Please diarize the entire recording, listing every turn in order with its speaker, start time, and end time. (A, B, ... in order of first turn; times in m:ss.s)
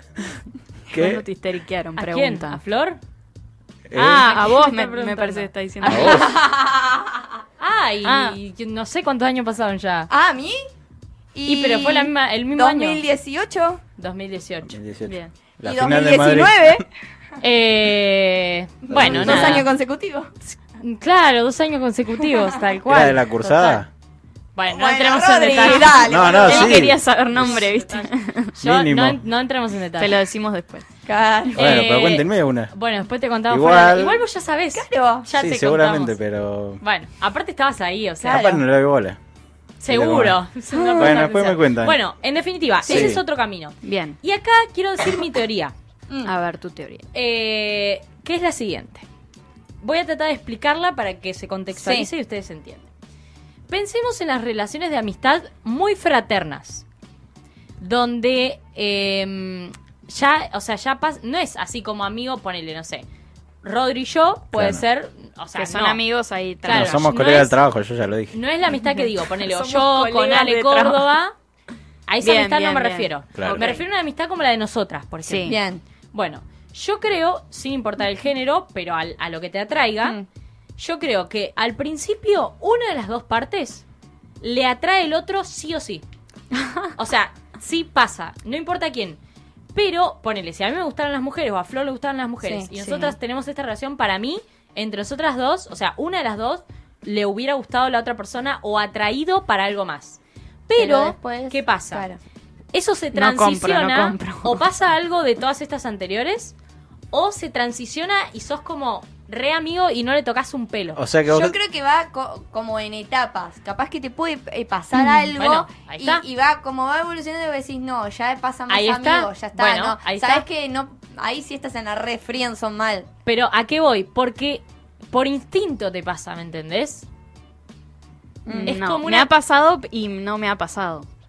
0:00.9-0:01.2 A
0:00.9-0:02.6 B
0:02.0-0:03.0 C
0:03.9-0:04.3 A
0:03.9-0:06.2 B
0:04.0-0:06.3 C
0:05.8-0:06.3 A
0:06.0-0:07.3 D
0:07.6-0:10.1 C
0:08.0-0:08.4 B
0:10.1-0:10.6 D
0:11.3-0:13.8 D
0:11.5-0:13.0 C
0:14.0-0:14.8 C
0:14.6-0:16.8 A
0:15.0-0:15.3 B
0:15.6-0:16.9 D
0:17.4-0:19.7 C
0:18.9-0:20.3 D
0:18.9-0:19.7 A
0:20.8-0:23.8 C
0:22.9-0:23.9 A
0:24.6-0:30.2 C
0:24.7-0:26.9 D
0:25.5-0:28.6 B
0:26.0-0:27.7 A
0:28.6-0:29.2 A
0:30.0-0:30.8 B
0:31.0-0:31.7 D
0:31.5-0:32.7 A
0:31.6-0:36.2 C
0:33.5-0:34.2 A
0:34.7-0:35.3 D
0:35.3-0:36.8 A
0:36.8-0:38.5 C
0:38.2-0:38.6 D
0:38.3-0:39.2 A
0:39.8-0:45.7 C
0:39.9-0:40.4 A
0:40.8-0:41.2 D
0:40.9-0:42.0 A
0:42.8-0:43.2 D
0:42.8-0:43.2 A
0:43.8-0:44.2 B
0:46.2-0:47.0 B
0:47.1-0:49.1 C
0:49.8-0:52.9 C
0:51.7-0:52.1 D
0:53.7-0:56.8 C
0:57.8-1:03.1 C
1:03.6-1:06.0 C
1:04.5-1:04.8 A
1:05.6-1:07.1 B
1:06.6-1:07.6 C
1:06.7-1:08.3 A
1:08.3-1:11.3 C
1:08.7-1:11.1 B
1:12.1-1:15.6 C
1:12.2-1:13.8 B
1:13.3-1:13.7 A
1:15.3-1:15.6 B
1:15.4-1:15.8 D
1:16.1-1:20.2 C
1:20.8-1:23.8 C
1:24.4-1:26.0 C
1:26.9-1:29.2 C
1:29.7-1:42.1 C
1:32.4-1:33.2 D
1:40.8-1:42.2 D
1:42.7-1:46.6 C
1:43.1-1:44.6 B
1:47.1-1:51.0 C
1:50.9-1:51.6 A
1:51.3-2:03.1 D
1:55.3-1:56.2 C
1:58.7-2:00.4 C
2:03.2-2:07.1 C
2:08.4-2:08.8 D
2:08.5-2:11.1 B
2:08.7-2:09.3 C